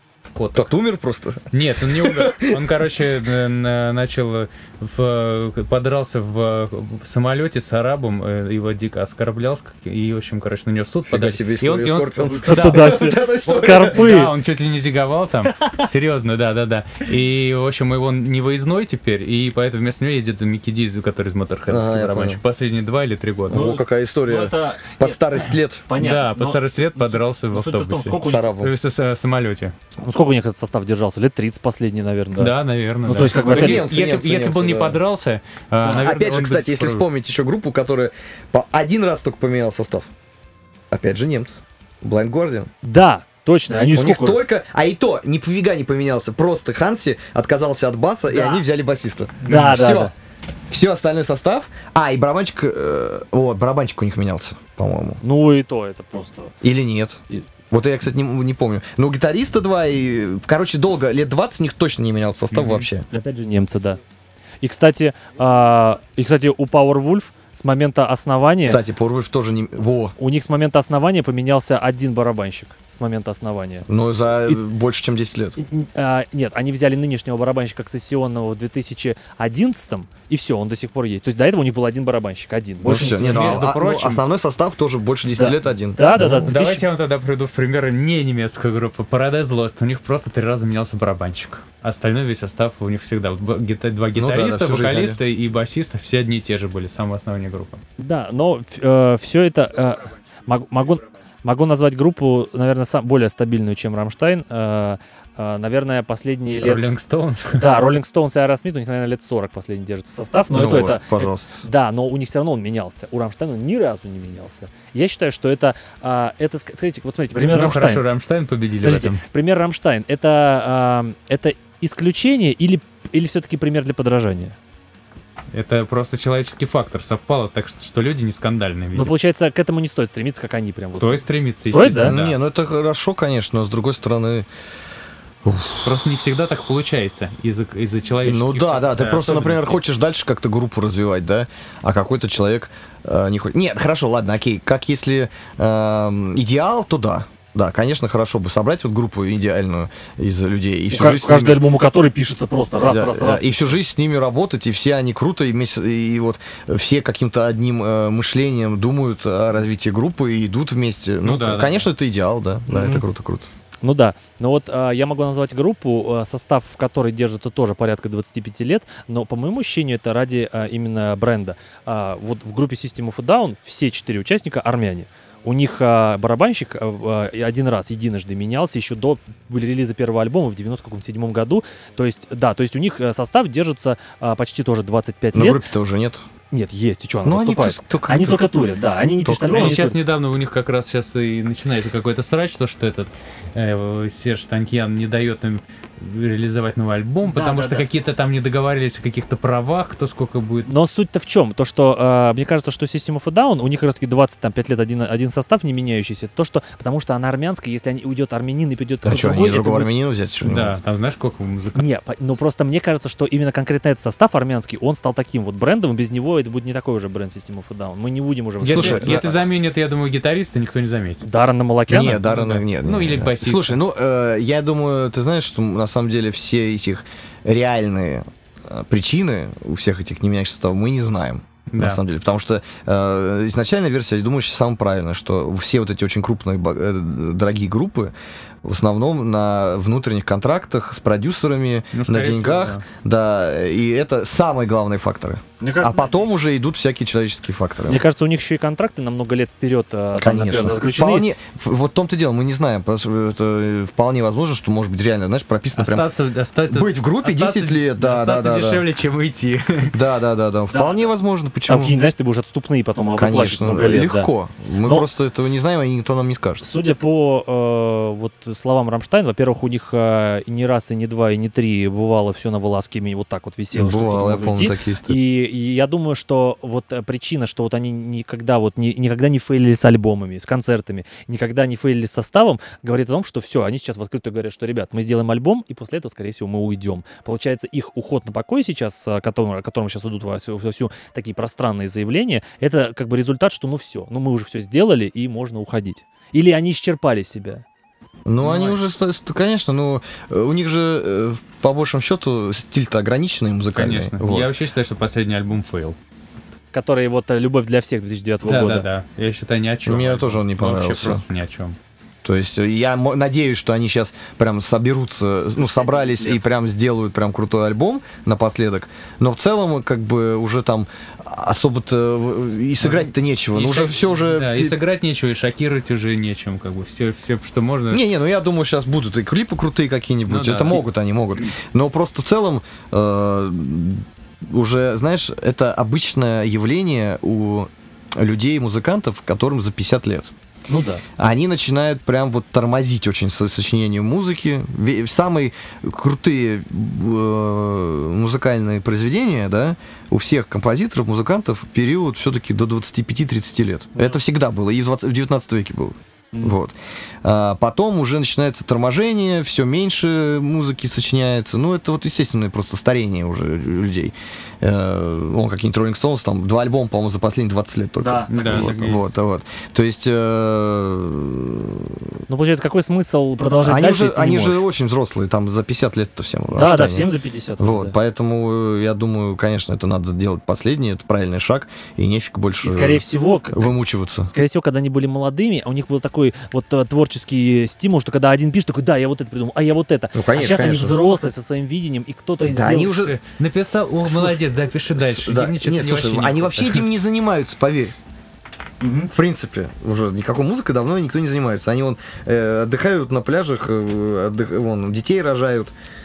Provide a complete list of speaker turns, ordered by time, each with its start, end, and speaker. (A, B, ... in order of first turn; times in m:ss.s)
0:00.3-0:00.7 A
0:00.5-0:02.6 B
0:01.5-0:23.7 A
0:11.1-0:14.1 B
0:12.4-0:14.3 C
0:21.7-0:22.4 B
0:23.5-0:25.8 B
0:23.5-0:28.4 C
0:26.0-0:29.7 A
0:28.2-0:28.7 B
0:30.0-0:32.5 C
0:32.4-0:37.0 A
0:33.0-0:33.9 C
0:33.4-0:35.0 B
0:35.8-0:40.1 B
0:40.9-0:42.7 B
0:42.8-0:44.4 C
0:43.8-0:50.1 B
0:48.3-0:48.6 C
0:49.4-0:50.1 C
0:49.5-0:50.0 A
0:50.7-0:55.2 B
0:55.2-0:56.5 C
0:56.6-1:03.0 B
1:02.5-1:02.9 A
1:03.1-1:04.0 C
1:04.6-1:08.8 C
1:08.6-1:10.2 B
1:10.2-1:13.9 C
1:13.9-1:15.6 B
1:15.6-1:23.7 C
1:22.8-1:26.5 B
1:22.9-1:24.2 A
1:25.4-1:26.8 C
1:26.2-1:37.8 A
1:34.1-1:35.2 B
1:38.0-1:46.9 C
1:46.6-1:47.6 A
1:47.5-1:58.0 C
1:50.5-1:51.6 B
1:57.5-1:59.2 A
1:58.8-2:04.6 C
2:05.5-2:09.1 A
2:09.0-2:12.1 C
2:11.0-2:12.4 A
2:11.8-2:14.5 B
2:15.4-2:16.0 B
2:15.8-2:19.8 A
2:18.2-2:31.6 B
2:30.9-2:33.8 C
2:32.9-2:43.5 B
2:41.2-2:41.9 A
2:42.7-2:43.0 C
2:43.8-3:05.7 C
3:05.3-3:06.2 B
3:06.5-3:10.0 C
3:07.2-3:08.4 B
3:09.2-3:09.8 B
3:09.5-3:20.7 A
3:17.2-3:17.8 C
3:20.6-3:29.9 C
3:29.0-3:30.8 B
3:30.4-3:31.8 A
3:31.7-3:39.2 C
3:38.6-3:41.2 A
3:38.6-3:39.4 B
3:41.2-3:42.2 C
3:41.9-3:58.1 B
3:42.2-3:43.8 A
3:51.7-3:52.0 A
3:58.6-4:08.0 B
4:01.9-4:02.8 A
4:05.6-4:06.2 C
4:07.8-4:11.3 C
4:10.2-4:16.1 B
4:15.8-4:20.0 A
4:16.7-4:18.8 B
4:19.9-4:22.0 B
4:20.7-4:21.0 C
4:21.7-4:24.3 C
4:23.2-4:26.6 B
4:26.6-4:57.6 C
4:33.7-4:35.2 B
4:58.3-5:04.5 B
4:58.4-4:58.8 C
5:03.7-5:06.0 A
5:06.7-5:08.9 C
5:08.4-5:11.8 A
5:09.8-5:11.2 B
5:12.2-5:24.8 B
5:16.0-5:16.3 C
5:22.8-5:28.0 A
5:27.9-5:40.3 B
5:30.3-5:30.8 A
5:40.7-5:41.0 C
5:41.2-6:12.1 B
5:56.3-5:56.6 C
6:08.0-6:08.9 C
6:08.3-6:09.0 A
6:12.3-6:14.6 C
6:13.4-6:17.1 B
6:16.5-6:17.9 C
6:17.6-6:24.3 B
6:22.6-6:23.7 C
6:24.3-6:33.0 C
6:30.1-6:31.0 B
6:32.4-6:33.2 B
6:32.8-6:36.8 A
6:34.0-6:34.4 B
6:34.9-6:37.9 B
6:38.8-6:39.1 C
6:39.1-6:45.7 B